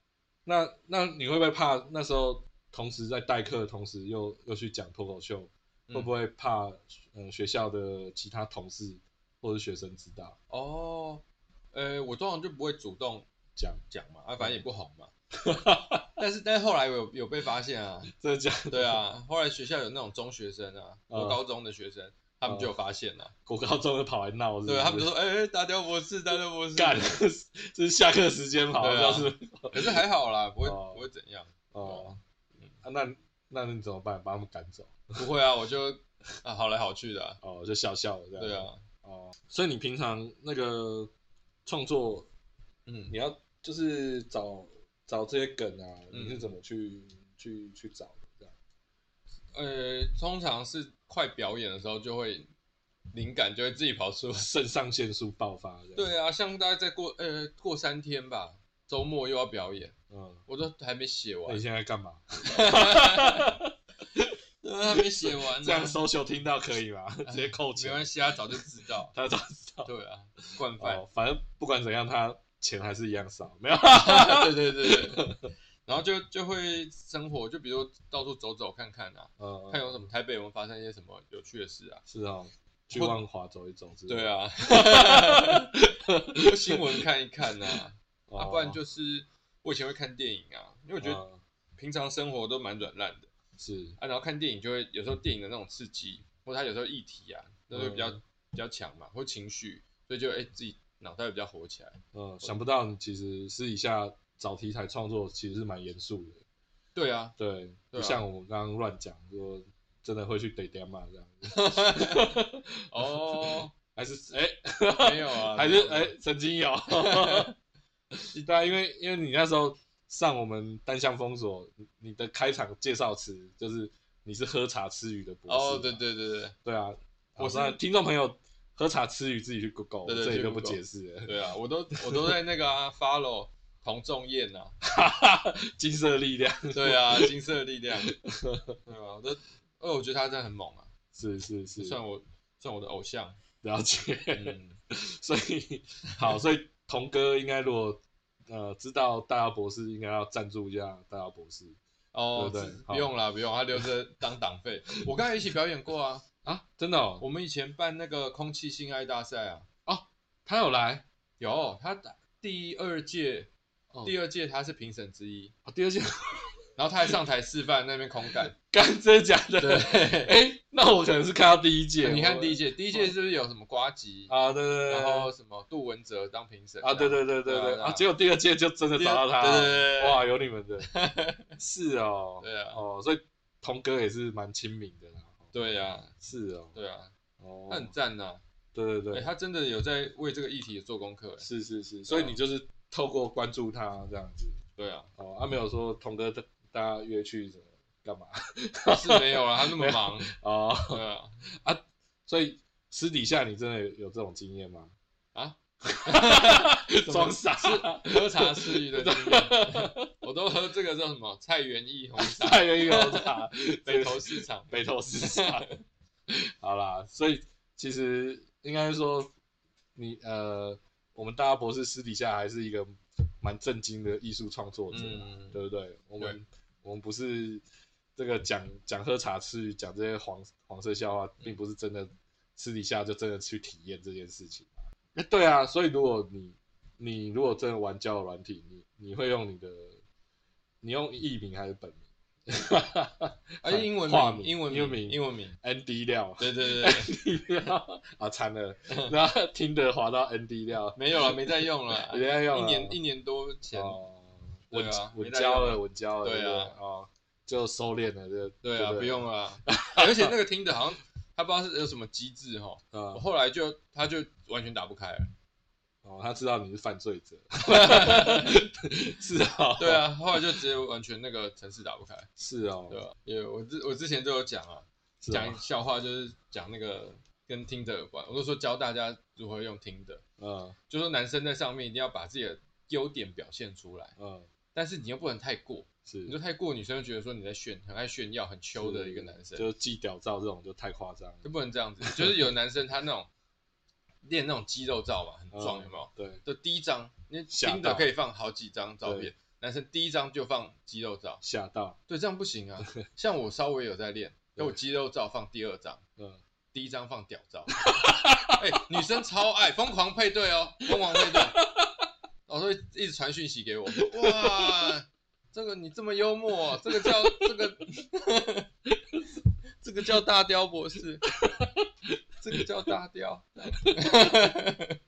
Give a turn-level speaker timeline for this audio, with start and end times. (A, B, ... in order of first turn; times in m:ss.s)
0:00.4-0:10.4 A
0:10.5-0:13.3 B
0:13.6-0:13.8 A
0:13.9-0:15.1 B
0:15.4-0:16.1 A
0:16.2-0:18.1 B
0:18.1-0:19.0 A
0:18.7-0:23.3 B
0:21.1-0:21.4 A
0:22.4-0:22.7 A
0:23.4-0:25.1 A
0:24.6-0:27.2 B
0:26.8-0:30.0 A
0:28.8-0:32.7 B
0:30.6-0:31.1 A
0:31.7-0:32.2 A
0:32.8-0:35.2 A
0:35.1-0:37.4 B
0:37.4-0:41.1 A
0:38.4-0:38.8 B
0:41.6-0:42.3 A
0:42.8-0:43.2 B
0:43.1-0:48.5 A
0:46.1-0:46.5 B
0:49.5-0:52.5 B
0:53.1-0:54.5 B
0:54.3-0:56.1 A
0:55.9-0:59.9 B
1:00.1-1:00.4 A
1:00.5-1:01.6 B
1:01.4-1:04.3 A
1:02.5-1:03.6 B
1:04.6-1:06.0 B
1:05.0-1:09.9 A
1:07.2-1:09.1 B
1:09.8-1:11.0 B
1:10.6-1:15.5 A
1:13.9-1:15.2 B
1:15.8-1:22.0 B
1:19.4-1:20.0 A
1:22.1-1:26.8 A
1:22.9-1:23.2 B
1:24.1-1:25.7 B
1:26.4-1:31.2 B
1:28.3-1:28.8 A
1:31.0-1:31.4 A
1:31.8-1:33.3 B
1:33.6-1:34.0 A
1:34.0-1:42.6 B
1:37.7-1:38.2 A
1:42.1-1:46.4 A
1:46.9-1:47.4 B
1:47.4-1:57.5 A
1:47.9-1:48.2 B
1:51.5-1:52.4 B
1:52.9-1:53.7 B
1:55.0-1:56.1 B
1:56.9-1:57.5 B
1:58.3-2:06.0 A
2:05.5-2:06.6 B
2:06.6-2:11.4 A
2:07.4-2:07.8 B
2:10.0-2:14.8 B
2:11.9-2:12.3 A
2:14.8-2:17.3 A
2:16.7-2:18.1 B
2:18.0-2:18.8 A
2:18.8-2:20.9 B
2:21.1-2:22.0 A
2:21.8-2:23.4 B
2:23.6-2:31.8 A
2:24.3-2:24.8 B
2:32.1-2:36.2 B
2:32.3-2:33.1 A
2:36.4-2:37.2 A
2:37.2-2:39.7 B
2:39.8-2:41.0 A
2:41.4-2:43.5 B
2:44.0-2:45.5 B
2:45.6-2:47.2 A
2:46.8-2:48.5 B
2:48.3-2:53.1 A
2:49.6-2:50.3 B
2:52.0-2:58.0 B
2:54.3-2:55.3 A
2:56.8-3:01.0 A
2:58.9-3:00.3 B
3:00.9-3:01.5 B
3:01.6-3:05.5 A
3:02.4-3:02.8 B
3:05.5-3:06.1 B
3:06.2-3:06.8 A
3:06.7-3:07.1 B
3:07.4-3:07.9 A
3:07.7-3:08.4 B
3:08.7-3:09.3 A
3:09.1-3:11.4 B
3:11.4-3:14.6 A
3:12.1-3:12.4 B
3:14.8-3:15.1 B
3:15.2-3:21.0 A
3:18.9-3:20.3 B
3:20.9-3:21.4 B
3:21.6-3:24.9 A
3:25.3-3:35.8 B
3:25.9-3:30.1 A
3:32.1-3:35.7 A
3:36.3-3:39.3 A
3:40.0-3:47.6 A
3:44.9-3:45.6 B
3:48.2-4:00.0 A
4:00.8-4:13.0 A
4:03.6-4:05.6 B
4:06.4-4:07.1 B
4:08.9-4:09.1 B
4:10.9-4:14.0 B
4:13.7-4:20.3 A
4:14.7-4:16.8 B
4:18.6-4:25.3 B
4:22.9-4:23.2 A
4:26.0-4:30.4 A
4:27.7-4:28.6 B
4:29.8-4:32.3 B
4:32.4-4:33.0 A
4:32.9-4:40.2 B
4:35.2-4:35.6 A
4:40.4-4:40.8 A
4:40.9-4:44.1 B
4:44.2-4:44.5 A
4:44.7-4:49.7 B
4:46.1-4:46.4 A
4:48.7-4:52.5 A
4:51.4-4:53.3 B
4:54.2-5:01.4 B
4:55.5-4:56.4 A
4:57.5-4:58.1 A
4:59.0-4:59.3 A
5:01.4-5:02.0 A
5:02.1-5:06.0 B
5:06.7-5:07.8 B
5:07.8-5:08.6 A
5:08.5-5:11.6 B
5:10.9-5:12.0 A
5:12.4-5:18.7 B
5:13.9-5:14.9 A
5:16.7-5:17.7 A
5:19.8-5:21.3 B
5:21.4-5:22.2 A
5:22.4-5:25.0 B
5:23.8-5:24.4 A